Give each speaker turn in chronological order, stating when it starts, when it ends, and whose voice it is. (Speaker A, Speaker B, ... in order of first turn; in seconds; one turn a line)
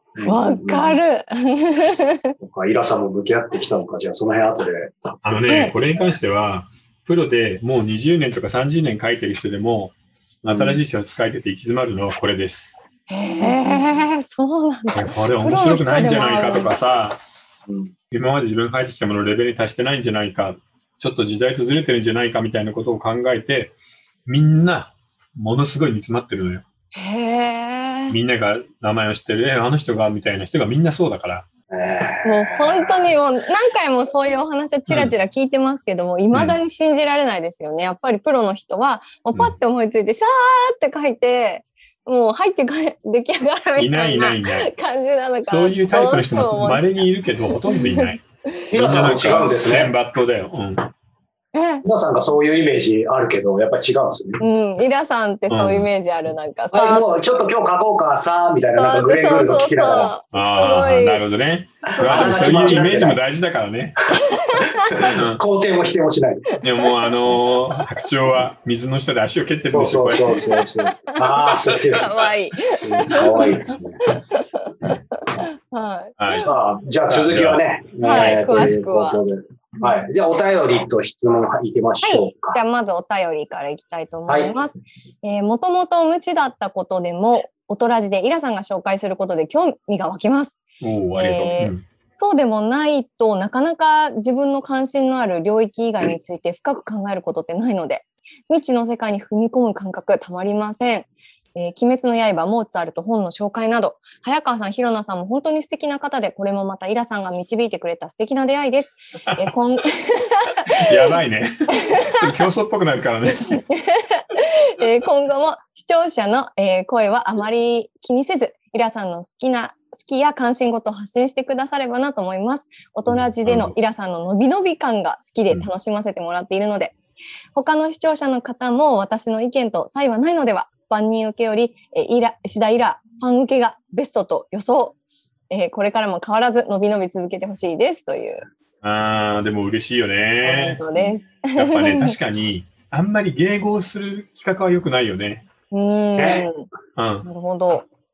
Speaker A: 0.2-1.0
Speaker B: 0.3-2.3
Speaker A: 2.4-5.1
Speaker C: 5.2-12.8
Speaker B: 5.5-5.8
Speaker A: 10.5-10.8
Speaker B: 13.1-16.7
Speaker A: 13.6-14.0
Speaker C: 14.9-17.2
Speaker A: 17.7-17.9
Speaker C: 18.1-23.8
Speaker C: 24.3-26.6
Speaker B: 26.9-28.2
Speaker C: 28.1-31.5
Speaker A: 31.7-33.1
Speaker B: 32.2-48.2
Speaker C: 36.3-36.6
Speaker C: 43.8-44.7
Speaker C: 45.4-50.9
Speaker A: 48.7-49.9
Speaker B: 51.5-51.9
Speaker A: 51.8-54.4
Speaker B: 54.4-57.4
Speaker C: 55.5-55.9
Speaker A: 56.7-60.1
Speaker B: 58.7-61.2
Speaker C: 60.3-64.0
Speaker B: 62.0-63.0
Speaker A: 62.0-63.2
Speaker B: 64.2-64.9
Speaker A: 64.9-66.5
Speaker C: 65.1-65.4
Speaker C: 66.6-70.4
Speaker B: 66.8-67.8
Speaker A: 69.7-72.2
Speaker B: 71.9-73.5
Speaker A: 72.8-74.0
Speaker B: 74.1-76.5
Speaker C: 76.2-78.8
Speaker A: 76.4-82.6
Speaker B: 78.0-79.2
Speaker B: 82.0-90.6
Speaker C: 90.8-91.8
Speaker B: 91.1-110.9
Speaker C: 110.8-113.6
Speaker B: 113.7-127.0
Speaker C: 123.1-123.8
Speaker B: 127.5-135.0
Speaker B: 135.5-138.4
Speaker C: 138.8-140.8
Speaker B: 140.4-142.2
Speaker C: 141.5-145.4
Speaker B: 145.7-146.7
Speaker A: 146.2-146.5
Speaker C: 147.0-147.3
Speaker B: 147.2-147.9